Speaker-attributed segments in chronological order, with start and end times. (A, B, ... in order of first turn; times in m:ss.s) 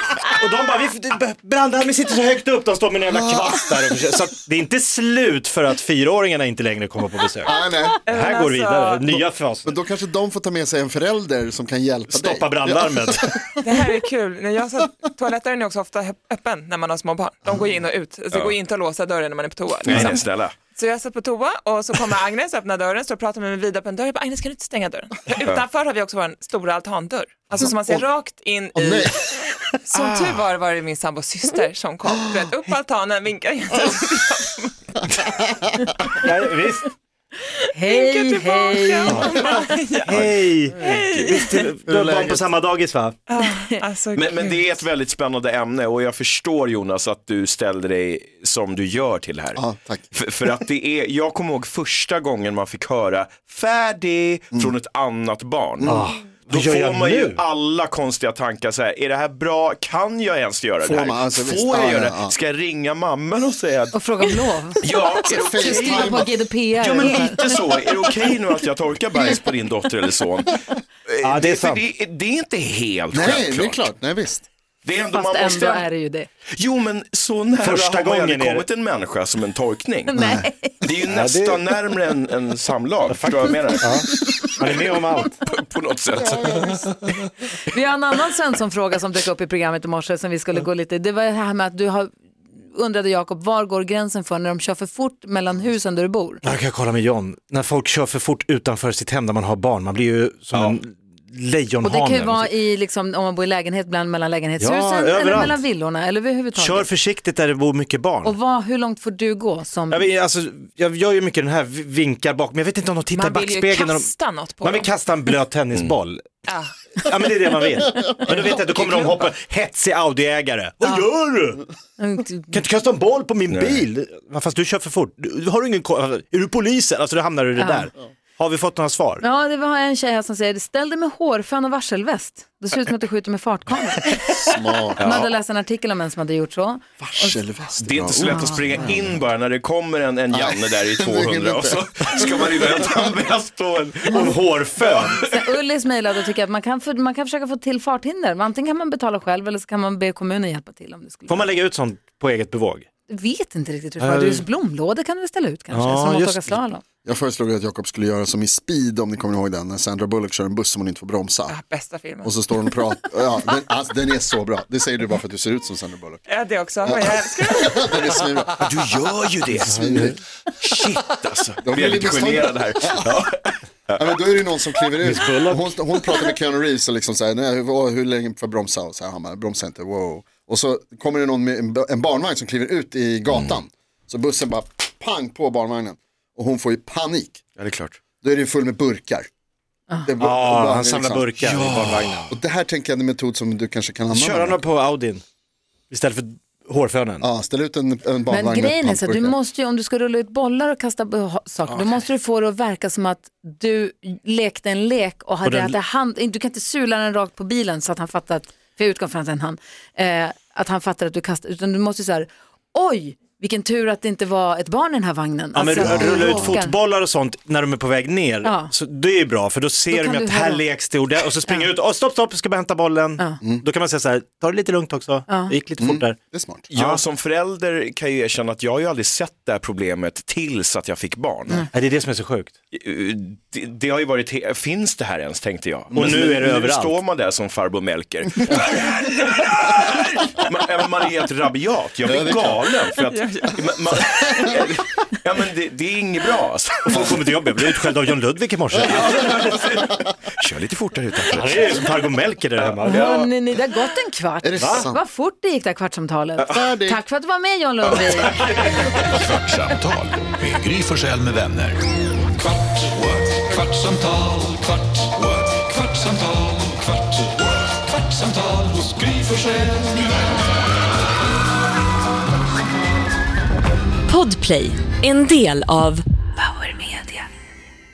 0:00.4-0:09.7 A
0:03.1-0:03.6 B
0:07.4-0:08.0 B
0:08.1-0:09.0 C
0:09.1-0:13.6 B
0:12.1-0:13.3 A
0:13.6-0:34.7 C
0:19.8-0:20.5 D
0:27.7-0:28.0 B
0:28.7-0:29.2 B
0:29.9-0:30.4 D
0:36.2-0:36.9 A
0:37.7-0:39.4 E
0:37.8-0:40.3 C
0:39.1-0:39.4 A
0:40.0-0:43.1 A
0:40.1-0:40.4 D
0:40.8-0:41.7 C
0:40.9-0:41.2 D
0:41.8-0:42.5 B
0:43.3-0:44.8 C
0:44.2-1:04.0 D
0:49.5-0:50.2 B
0:55.8-0:56.1 B
0:55.8-0:57.4 A
1:00.8-1:02.3 B
1:03.9-1:04.9 E
1:04.8-1:06.2 D
1:05.3-1:06.3 B
1:05.5-1:07.5 E
1:06.8-1:13.9 D
1:11.2-1:11.8 A
1:13.1-1:14.5 B
1:14.8-1:15.9 D
1:15.1-1:16.3 E
1:16.5-1:20.1 D
1:17.6-1:18.6 A
1:20.1-1:20.9 E
1:20.1-1:20.5 B
1:20.8-1:24.5 D
1:21.1-1:21.6 A
1:23.1-1:25.4 A
1:24.0-1:24.4 E
1:25.4-1:27.2 D
1:26.2-1:26.9 B
1:27.7-1:36.5 E
1:36.4-1:42.5 A
1:41.8-1:46.9 E
1:44.6-1:45.6 A
1:46.6-1:48.4 A
1:48.2-1:50.1 E
1:49.9-1:56.4 A
1:53.1-1:54.9 C
1:56.5-1:56.7 C
1:57.0-2:01.6 A
2:02.0-2:02.6 E
2:02.5-2:09.2 A
2:03.5-2:03.8 D
2:07.6-2:07.9 E
2:09.2-2:17.4 E
2:14.3-2:15.0 B
2:15.0-2:15.3 D
2:17.0-2:19.2 B
2:17.8-2:25.4 D
2:18.2-2:18.9 E
2:20.3-2:23.1 B
2:24.1-2:25.2 A
2:25.3-2:31.5 E
2:31.3-2:32.8 A
2:33.1-2:36.8 E
2:34.0-2:34.4 A
2:35.7-2:36.5 A
2:37.0-2:41.6 B
2:41.5-2:42.4 C
2:42.2-2:46.2 B
2:46.3-2:48.1 C
2:46.8-2:48.7 B
2:48.6-2:49.7 D
2:49.5-2:50.2 B
2:49.6-2:50.1 A
2:50.6-2:54.3 D
2:51.6-2:53.1 B
2:54.0-3:07.4 B
2:55.0-2:55.8 A
3:03.3-3:03.6 D
3:07.6-3:08.0 D
3:08.2-3:09.3 B
3:10.0-3:11.4 B
3:10.2-3:12.3 A
3:11.4-3:12.3 D
3:12.3-3:14.6 B
3:14.1-3:15.2 A
3:15.9-3:17.2 A
3:17.2-3:19.4 B
3:18.3-3:36.7 E
3:25.4-3:25.8 A
3:35.5-3:46.2 A
3:35.8-3:36.6 B
3:38.4-3:38.7 E
3:39.9-3:41.7 E
3:45.3-3:45.5 E
3:45.8-3:46.7 B
3:46.7-3:51.6 D
3:46.7-3:47.0 A
3:51.7-3:52.5 A
3:52.7-4:07.3 D
3:55.9-3:57.0 A
4:02.0-4:02.7 B
4:03.1-4:03.7 C
4:06.8-4:09.8 A
4:09.0-4:12.0 D
4:11.3-4:13.1 A
4:12.6-4:13.3 D
4:12.8-4:19.1 E
4:14.4-4:15.0 B
4:14.6-4:14.9 A
4:16.5-4:17.0 B
4:17.8-4:18.3 D
4:18.2-4:19.1 A
4:19.1-4:21.8 F
4:22.7-4:30.2 F
4:34.1-4:36.0 G